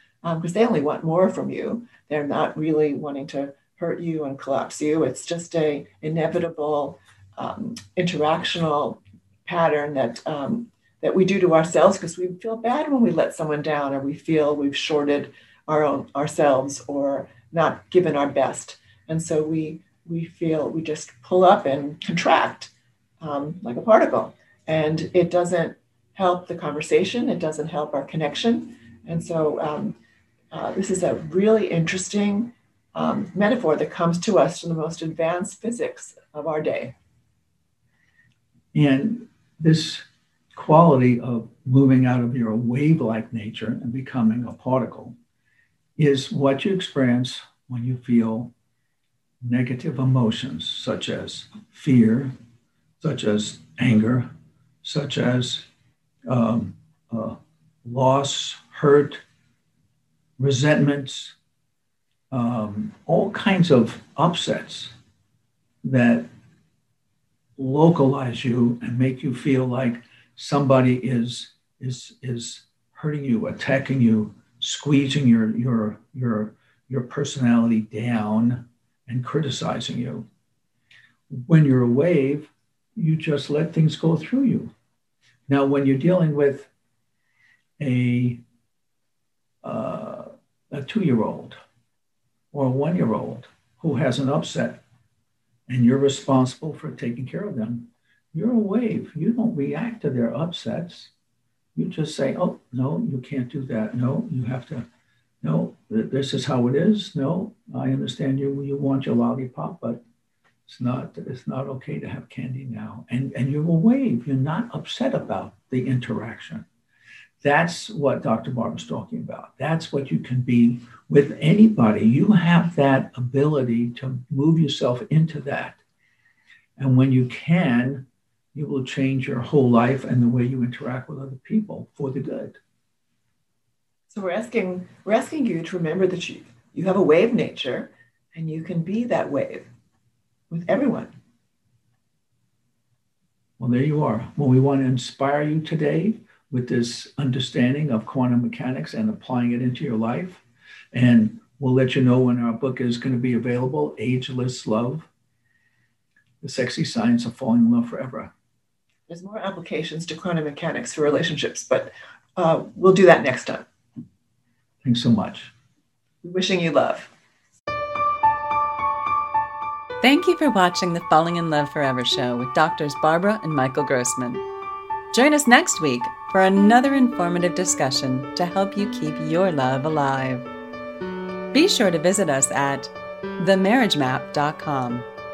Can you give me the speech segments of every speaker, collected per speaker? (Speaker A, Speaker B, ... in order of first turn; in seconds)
Speaker A: 0.2-30.0, 30.5-36.9, 134.1-139.7, 140.5-141.1, 159.1-163.7, 166.2-167.1
Speaker B: 38.7-45.1, 46.0-48.5, 49.4-52.3, 53.0-54.3, 54.8-55.6, 56.3-59.2, 60.4-61.4, 62.3-64.9, 65.8-66.3, 67.6-80.2, 81.3-84.7, 85.5-86.7, 87.8-88.4, 89.6-91.6, 92.5-94.8, 95.7-101.1, 101.7-104.8, 105.4-110.0, 110.7-116.7, 117.4-125.8, 126.8-132.6, 143.6-155.1, 156.4-158.3, 164.8-165.5
Speaker C: 170.0-174.4, 175.1-180.4, 181.5-185.1